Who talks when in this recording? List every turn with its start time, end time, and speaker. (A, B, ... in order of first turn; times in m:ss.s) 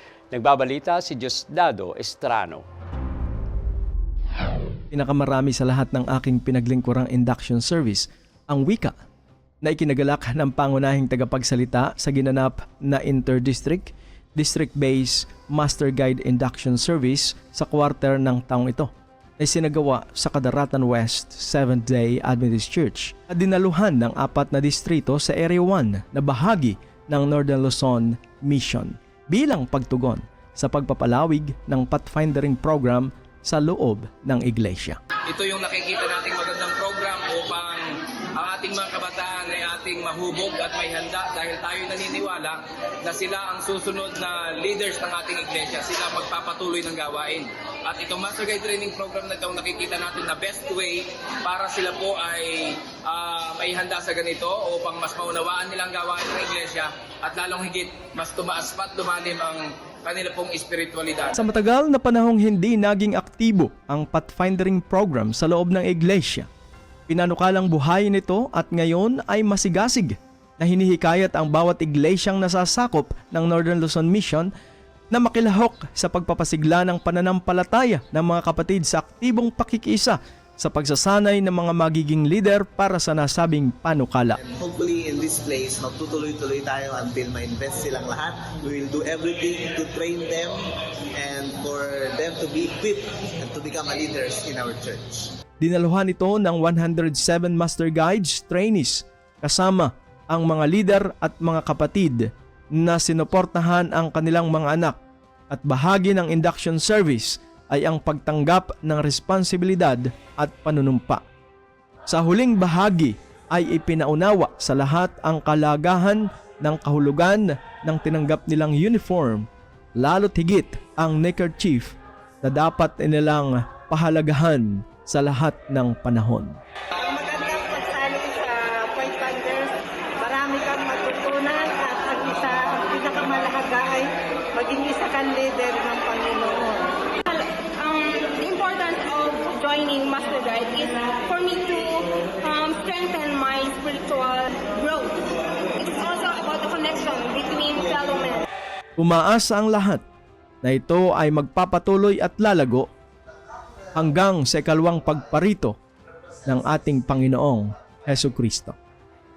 0:00.3-0:02.6 A
0:04.9-0:09.0 B
0:09.6-0:35.0 B
0:35.3-1:01.4 C
1:01.3-1:06.5 B
1:07.1-1:14.5 B
1:15.1-1:24.4 B
1:24.4-1:35.4 D
1:35.6-1:45.0 B
1:45.5-1:51.2 B
1:52.1-2:06.6 B
2:07.0-2:17.0 E
2:17.2-2:28.4 F
2:29.0-2:30.0 B
2:30.6-2:32.9 B
2:33.9-2:35.8 B
2:36.4-2:38.8 B